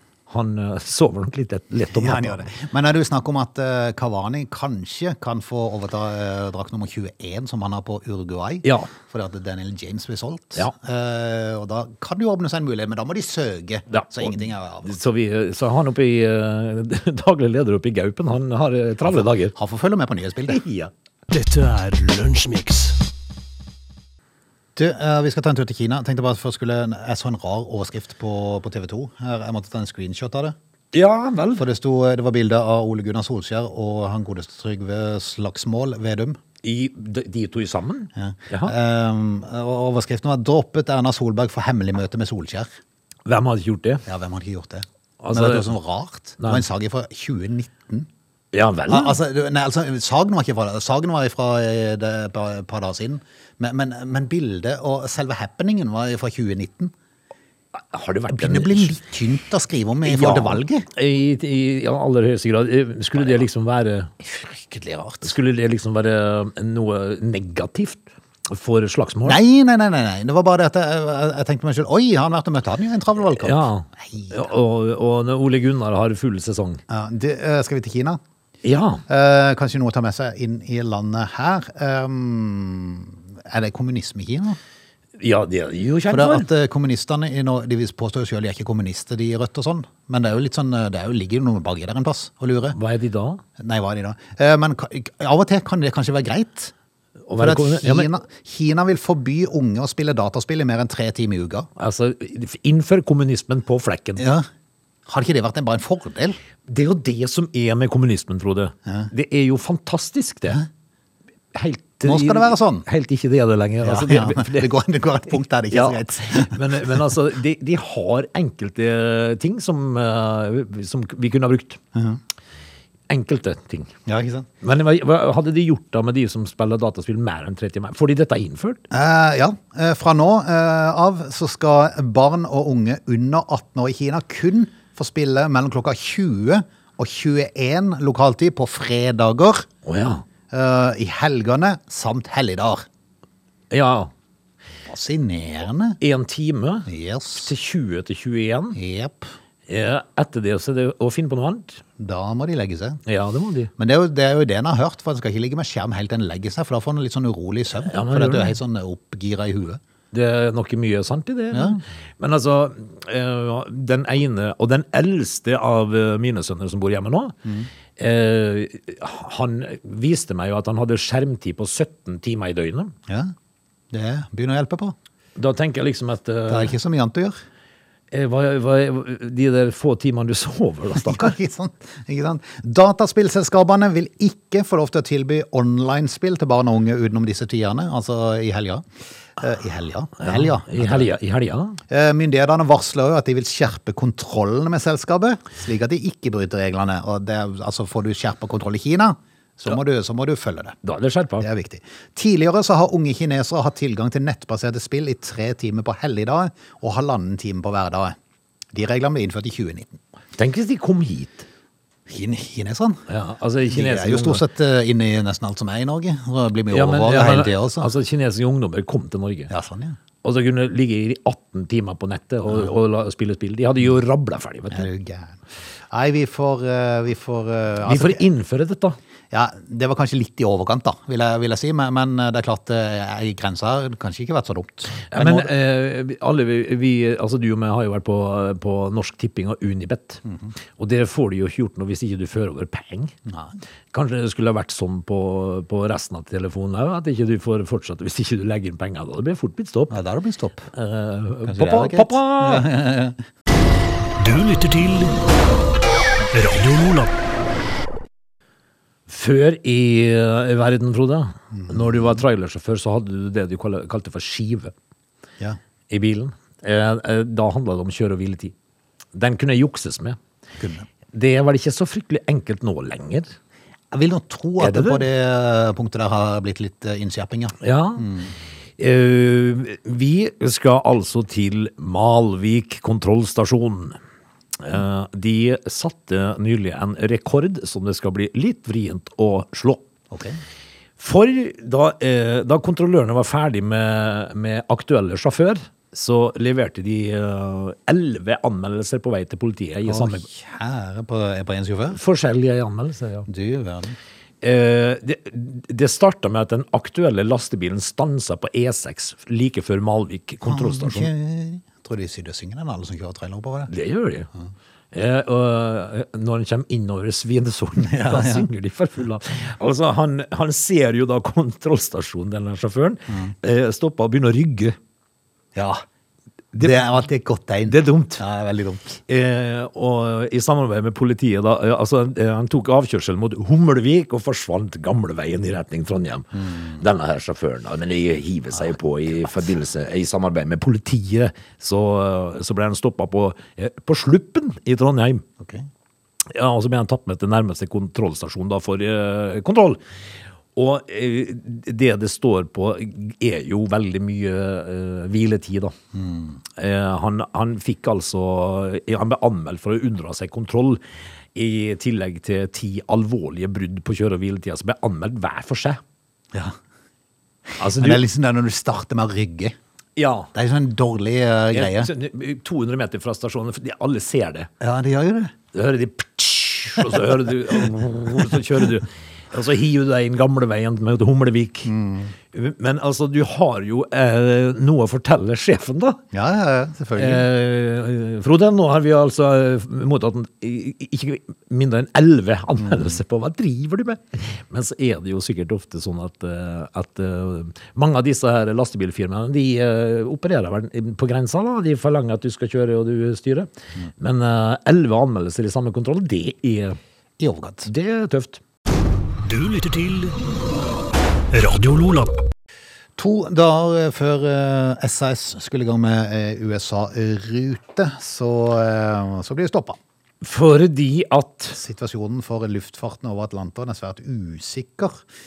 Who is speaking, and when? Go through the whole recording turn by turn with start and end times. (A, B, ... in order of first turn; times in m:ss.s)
0:00.3-0:02.5 A
0:01.9-0:15.0 B
0:08.6-0:08.9 A
0:13.9-0:19.6 A
0:19.0-0:20.6 B
0:20.5-0:20.9 A
0:21.3-0:23.0 C
0:24.8-0:30.6 B
0:30.9-0:31.6 A
0:31.6-0:36.4 B
0:36.6-0:38.7 A
0:38.2-0:42.7 B
0:43.3-0:44.0 A
0:44.1-0:48.1 B
0:45.2-0:45.7 A
0:48.5-0:49.2 A
0:48.9-0:56.9 B
0:57.8-0:59.0 A
0:58.3-1:00.9 B
1:00.0-1:04.1 A
1:04.3-1:05.3 B
1:05.2-1:09.4 A
1:09.2-1:14.4 B
1:13.4-1:16.8 A
1:16.9-1:18.2 B
1:18.6-1:19.0 A
1:19.1-1:24.6 B
1:25.2-1:26.5 A
1:26.1-1:32.8 B
1:32.8-1:33.4 A
1:33.6-1:36.7 B
1:37.3-1:38.1 A
1:37.4-1:41.7 B
1:41.8-1:44.2 A
1:44.2-1:44.5 B
1:45.1-1:46.4 B
1:46.7-1:50.6 A
1:51.5-1:54.7 A
1:52.0-1:52.9 B
1:53.8-1:57.1 B
1:55.7-2:01.8 A
2:03.1-2:03.9 A
2:04.1-2:04.5 B
2:04.6-2:08.8 A
2:08.9-2:19.7 B
2:19.8-2:20.2 A
2:20.5-2:22.8 B
2:23.7-2:24.1 A
2:24.9-2:26.0 B
2:26.0-2:26.9 A
2:26.9-2:27.5 B
2:27.4-2:28.8 A
2:28.8-2:29.3 B
2:29.7-2:31.8 A
2:32.0-2:33.0 B
2:33.1-2:33.7 A
2:33.8-2:39.8 B
2:37.9-2:38.6 A
2:40.1-2:47.4 A
2:41.5-2:41.8 B
2:48.0-2:52.9 A
2:53.1-2:53.3 B
2:53.9-2:55.0 B
2:55.4-2:56.7 A
2:56.5-2:57.4 B
2:58.1-3:01.4 A
3:01.0-3:08.8 B
3:09.4-3:11.1 B
3:10.2-3:11.8 A
3:11.9-3:20.8 B
3:20.8-3:21.5 A
3:21.4-3:28.2 B
3:28.7-3:30.0 B
3:30.4-3:31.5 A
3:32.1-3:33.1 B
3:33.1-3:34.4 A
3:33.7-3:37.9 B
3:36.7-3:39.5 A
3:39.5-3:40.0 B
3:40.2-3:44.9 A
3:44.7-3:48.2 B
3:47.8-3:49.0 A
3:49.3-3:55.5 B
3:55.1-4:00.2 A
4:00.3-4:00.5 B
4:00.8-4:03.1 A
4:03.3-4:03.6 B
4:03.9-4:09.9 A
4:09.9-4:10.7 B
4:10.7-4:12.7 A
4:11.5-4:13.2 B
4:14.2-4:15.2 C
4:16.3-4:17.1 C
4:19.1-4:24.7 A
4:21.5-4:22.2 B
4:25.9-4:28.5 A
4:29.1-4:30.2 A
4:30.6-4:30.9 B
4:31.1-4:33.3 A
4:33.9-4:38.3 B
4:34.6-4:35.1 A
4:37.6-4:38.1 A
4:38.8-4:44.0 A
4:44.6-4:49.8 A
4:50.1-4:50.4 B
4:51.0-5:00.3 A
4:59.8-5:02.0 B
5:01.9-5:03.3 A
5:03.3-5:04.0 B
5:04.4-5:11.1 A
5:10.4-5:13.7 B
5:13.7-5:14.3 A
5:14.9-5:24.8 A
5:17.8-5:18.5 B
5:25.6-5:25.8 B
5:26.6-5:29.0 B
5:27.7-5:28.2 A
5:29.1-5:45.2 A
5:45.4-5:45.7 B
5:46.3-5:49.8 A
5:50.6-5:55.7 A
5:55.9-5:56.4 B
5:56.6-6:00.8 A
6:01.4-6:05.8 A
6:07.6-6:08.0 A
6:07.7-6:09.6 B
6:10.0-6:10.3 A
6:10.3-6:11.9 B
6:11.5-6:14.5 A
6:14.6-6:15.3 B
6:15.5-6:21.7 A
6:21.7-6:22.1 B
6:22.3-6:26.0 A
6:26.1-6:27.3 B
6:27.0-6:46.8 A
6:47.2-6:47.7 B
6:47.7-6:48.4 A
6:49.2-6:50.2 C
6:51.3-6:52.2 C
6:53.0-6:59.8 B
7:00.2-7:01.6 A
7:01.5-7:05.0 B